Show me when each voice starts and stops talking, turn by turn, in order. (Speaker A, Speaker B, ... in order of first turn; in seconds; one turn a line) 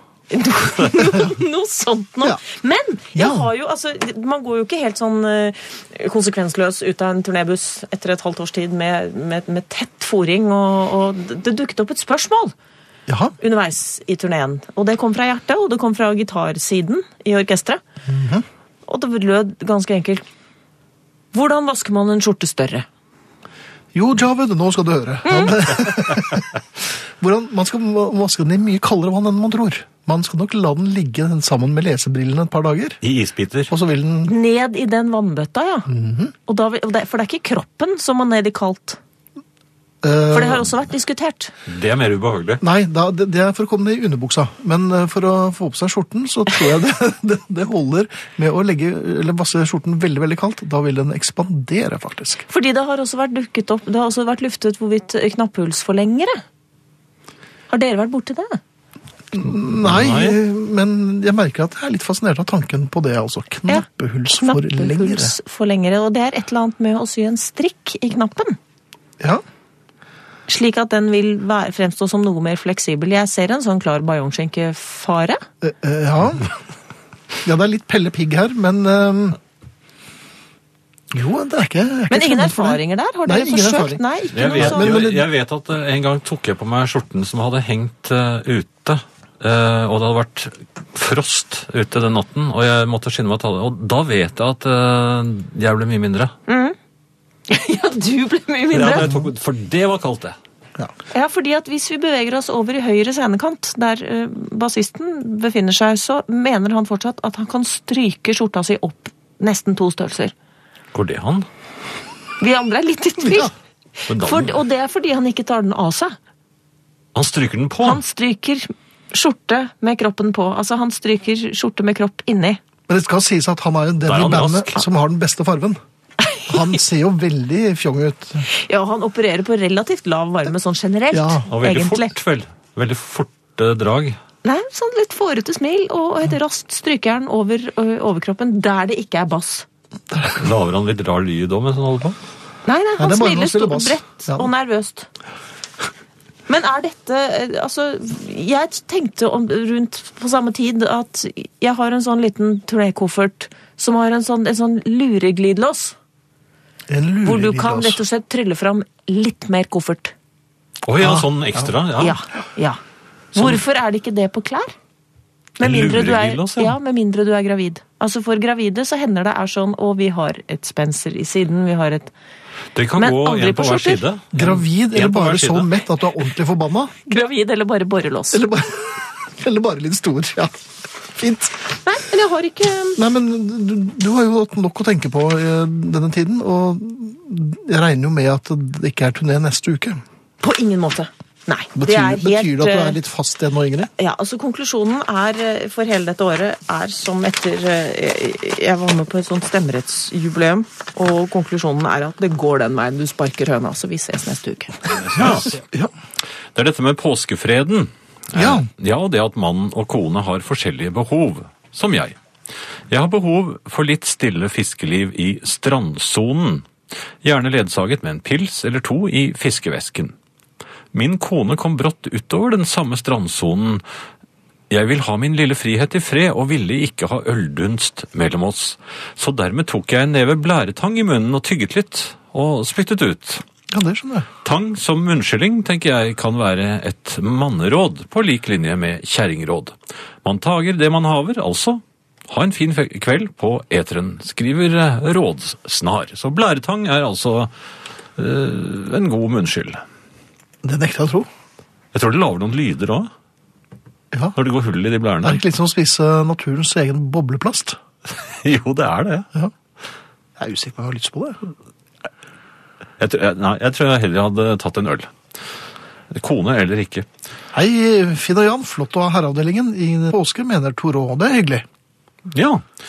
Speaker A: 0.3-12.5
Speaker B: 1.0-1.3
Speaker B: 3.1-3.5
Speaker B: 13.1-13.3
Speaker A: 13.4-17.8
Speaker B: 18.1-18.4
Speaker A: 18.9-20.2
Speaker A: 21.3-22.9
Speaker B: 23.9-33.0
Speaker A: 25.2-25.7
Speaker C: 33.0-33.7
Speaker B: 33.7-34.3
Speaker A: 34.2-35.9
Speaker B: 35.9-36.3
Speaker A: 36.5-39.0
Speaker B: 40.0-40.7
Speaker A: 40.3-41.5
Speaker C: 41.6-42.6
Speaker B: 42.6-52.5
Speaker A: 52.5-56.4
Speaker A: 57.7-58.6
Speaker B: 59.3-65.3
Speaker C: 59.8-60.4
Speaker A: 64.4-68.6
Speaker A: 70.5-75.4
Speaker B: 75.6-76.5
Speaker B: 77.4-79.4
Speaker B: 81.1-84.0
Speaker A: 82.1-85.1
Speaker C: 84.3-96.3
Speaker B: 84.5-85.2
Speaker A: 96.5-96.8
Speaker A: 97.5-99.2
Speaker C: 98.7-100.3
Speaker A: 101.1-110.3
Speaker C: 110.9-111.5
Speaker A: 112.4-113.5
Speaker A: 114.1-116.2
Speaker C: 114.1-114.6
Speaker C: 117.1-118.0
Speaker A: 117.8-122.6
Speaker B: 122.9-125.8
Speaker C: 124.0-124.8
Speaker A: 126.2-126.7
Speaker B: 126.5-128.5
Speaker A: 128.4-132.1
Speaker B: 131.1-131.4
Speaker C: 131.5-134.2
Speaker A: 134.4-139.7
Speaker C: 140.3-142.2
Speaker A: 142.7-145.1
Speaker B: 143.0-144.5
Speaker A: 146.5-155.9
Speaker B: 156.9-158.0
Speaker A: 157.2-160.1
Speaker C: 160.8-162.2
Speaker B: 161.0-161.7
Speaker A: 162.0-162.8
Speaker A: 163.3-164.7
Speaker C: 163.3-163.6
Speaker C: 165.6-166.8
Speaker A: 165.6-172.1
Speaker C: 172.7-175.7
Speaker A: 173.0-174.0
Speaker B: 174.3-176.9
Speaker A: 177.1-178.4
Speaker B: 178.3-180.6
Speaker B: 181.2-181.6
Speaker A: 181.8-183.0
Speaker B: 183.0-190.0
Speaker A: 190.4-193.0
Speaker B: 191.7-193.9
Speaker A: 194.0-204.8
Speaker C: 204.8-205.6
Speaker B: 205.2-205.9
Speaker C: 206.5-212.2
Speaker B: 208.3-208.7
Speaker C: 212.9-216.7
Speaker C: 217.2-220.1
Speaker C: 220.9-223.8
Speaker C: 224.7-233.4
Speaker B: 233.7-234.3
Speaker C: 234.4-247.5
Speaker C: 248.2-249.8
Speaker B: 250.6-251.3
Speaker C: 251.9-253.1
Speaker C: 254.3-255.4
Speaker B: 255.2-257.8
Speaker C: 258.1-259.3
Speaker B: 260.4-261.4
Speaker C: 263.0-265.1
Speaker C: 266.1-267.1
Speaker B: 267.5-271.6
Speaker C: 272.3-272.6